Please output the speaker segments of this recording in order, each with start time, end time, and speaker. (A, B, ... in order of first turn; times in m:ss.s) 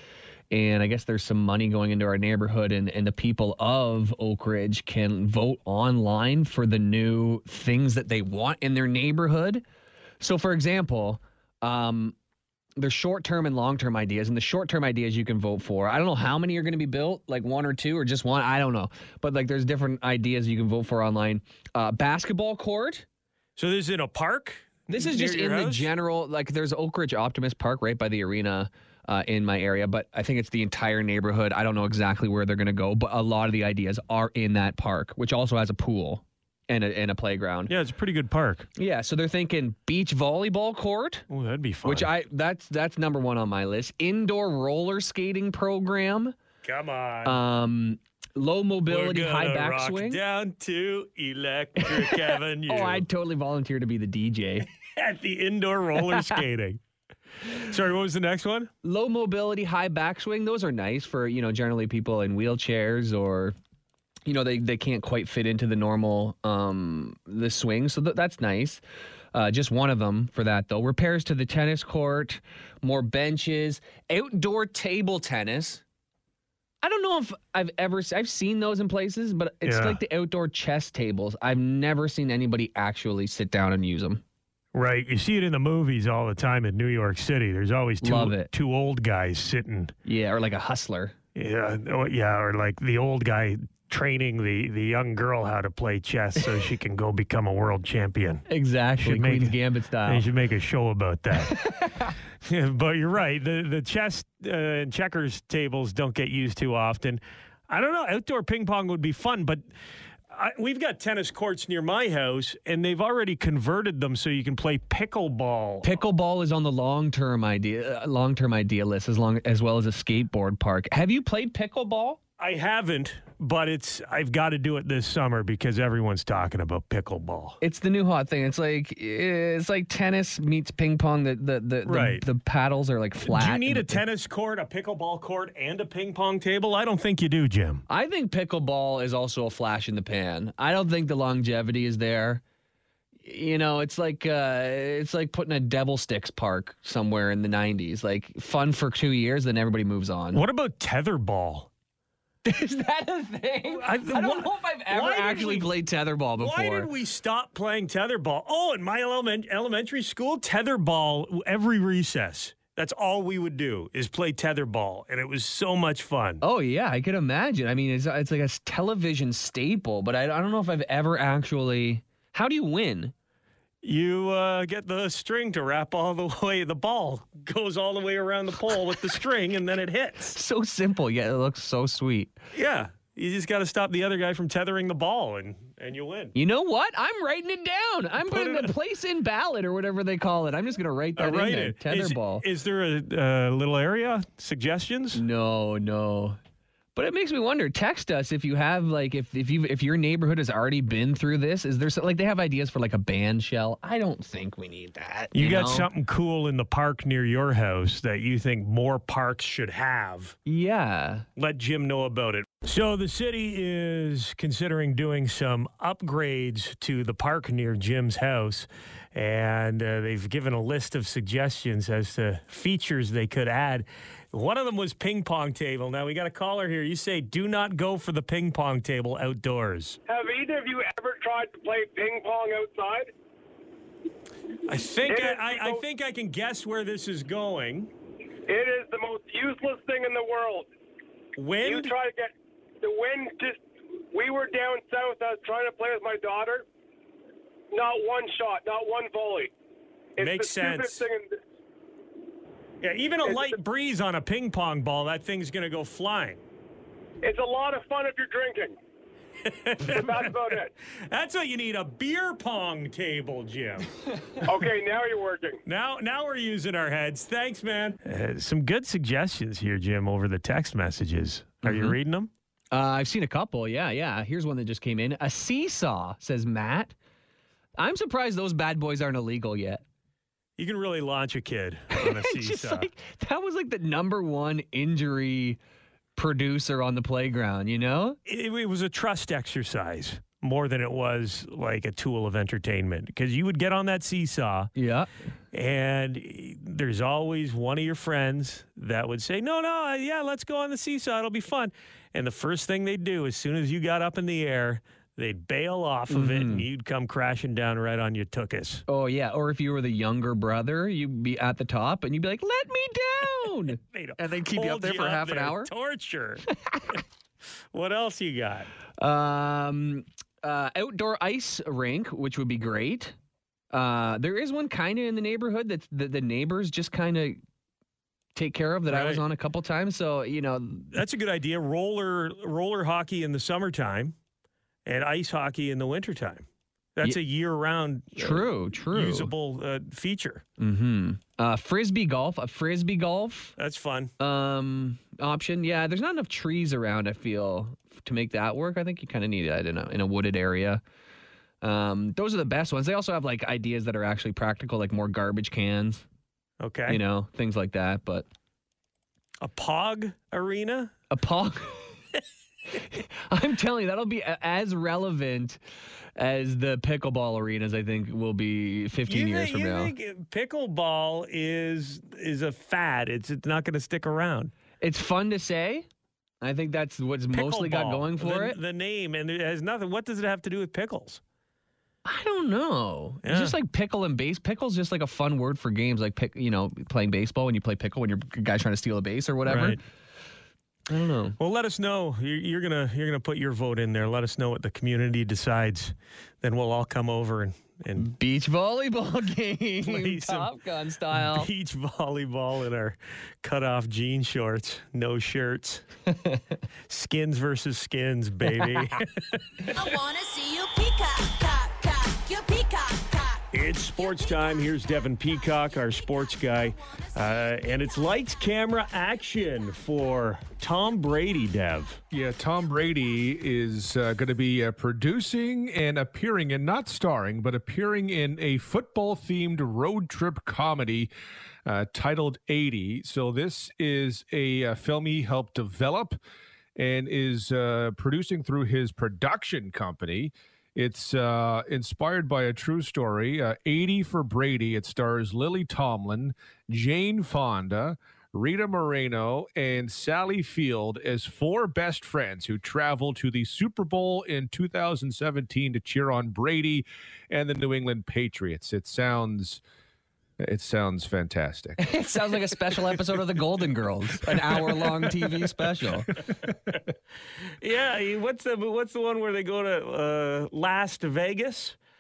0:00.5-0:09.6 A
0:10.2-0:12.1 A
0:12.8-0:23.0 A
0:23.6-0:25.9 B
0:24.9-0:37.7 A
0:37.7-0:38.7 B
0:38.8-0:41.2 A
0:41.3-0:42.1 B
0:41.8-0:46.3 A
0:46.6-0:47.4 B
0:47.2-0:50.2 A
0:48.9-0:53.0 B
0:51.8-0:54.7 A
0:54.8-0:56.8 B
0:56.1-0:56.4 A
0:57.4-0:58.7 B
0:58.8-1:03.5 A
1:04.2-1:08.8 A
1:09.3-1:15.8 A
1:16.8-1:24.2 A
1:19.6-1:20.0 B
1:24.7-1:29.9 B
1:28.0-1:28.5 A
1:30.0-1:31.1 A
1:31.3-1:38.5 B
1:38.5-1:40.2 A
1:39.0-1:41.6 B
1:41.4-1:42.1 A
1:42.4-1:49.6 B
1:50.3-1:56.0 B
1:55.8-2:02.2 A
2:02.4-2:07.6 B
2:07.6-2:14.0 A
2:11.8-2:12.2 B
2:13.2-2:17.8 B
2:17.9-2:22.4 A
2:23.2-2:30.4 A
2:30.3-2:31.7 B
2:32.4-2:36.9 A
2:33.7-2:35.7 B
2:36.4-2:46.4 B
2:46.4-2:53.1 A
2:53.8-3:00.4 B
3:00.3-3:02.3 A
3:02.5-3:06.3 B
3:06.3-3:12.4 A
3:08.2-3:08.7 B
3:11.2-3:15.2 B
3:15.1-3:16.4 A
3:16.9-3:25.9 A
3:25.3-3:30.4 B
3:30.4-3:31.2 A
3:31.4-3:50.0 B
3:50.1-3:53.1 C
3:54.6-3:57.9 B
3:55.0-3:55.8 C
3:58.5-4:00.7 C
4:01.4-4:01.9 B
4:01.6-4:03.6 C
4:04.1-4:06.6 C
4:07.7-4:09.5 C
4:10.2-4:11.4 C
4:10.2-4:11.0 B
4:12.8-4:16.4 B
4:13.2-4:13.6 C
4:17.2-4:18.8 C
4:19.4-4:20.4 B
4:19.8-4:20.7 C
4:21.1-4:23.9 B
4:24.4-4:25.6 C
4:25.6-4:32.3 B
4:31.6-4:32.0 A
4:32.7-4:36.9 A
4:37.8-4:39.8 A
4:40.6-4:42.9 B
4:41.9-4:45.6 A
4:46.2-4:48.2 A
4:48.2-4:54.7 B
4:54.8-4:55.1 A
4:55.5-5:08.8 B
5:06.1-5:06.6 A
5:08.9-5:15.7 A
5:13.8-5:17.0 B
5:17.7-5:18.7 B
5:19.0-5:23.1 A
5:23.7-5:27.4 A
5:28.3-5:30.9 A
5:28.9-5:29.2 B
5:30.9-5:34.1 B
5:34.8-5:36.4 B
5:37.0-5:40.4 B
5:38.2-5:39.3 A
5:40.6-5:43.5 A
5:43.6-5:44.1 B
5:44.2-5:50.8 A
5:51.6-5:56.0 A
5:56.6-5:57.0 B
5:56.9-5:58.2 A
5:59.4-6:00.9 B
6:01.1-6:01.9 A
6:02.7-6:05.6 A
6:06.2-6:09.9 A
6:09.1-6:14.5 B
6:14.8-6:15.8 A
6:16.4-6:18.6 A
6:17.3-6:21.2 B
6:22.0-6:29.8 A
6:23.2-6:23.6 B
6:29.4-6:29.8 B
6:30.9-6:31.4 A
6:31.4-6:38.1 B
6:38.0-6:41.5 A
6:39.8-6:40.5 B
6:41.1-6:45.8 B
6:46.1-6:46.4 A
6:46.9-6:49.1 B
6:49.7-6:53.4 D
6:53.5-7:02.0 B
6:54.0-6:58.1 D
7:02.1-7:11.1 E
7:11.6-7:16.2 E
7:16.8-7:39.6 E
7:40.4-7:41.8 E
7:41.8-7:46.1 A
7:47.6-7:51.8 B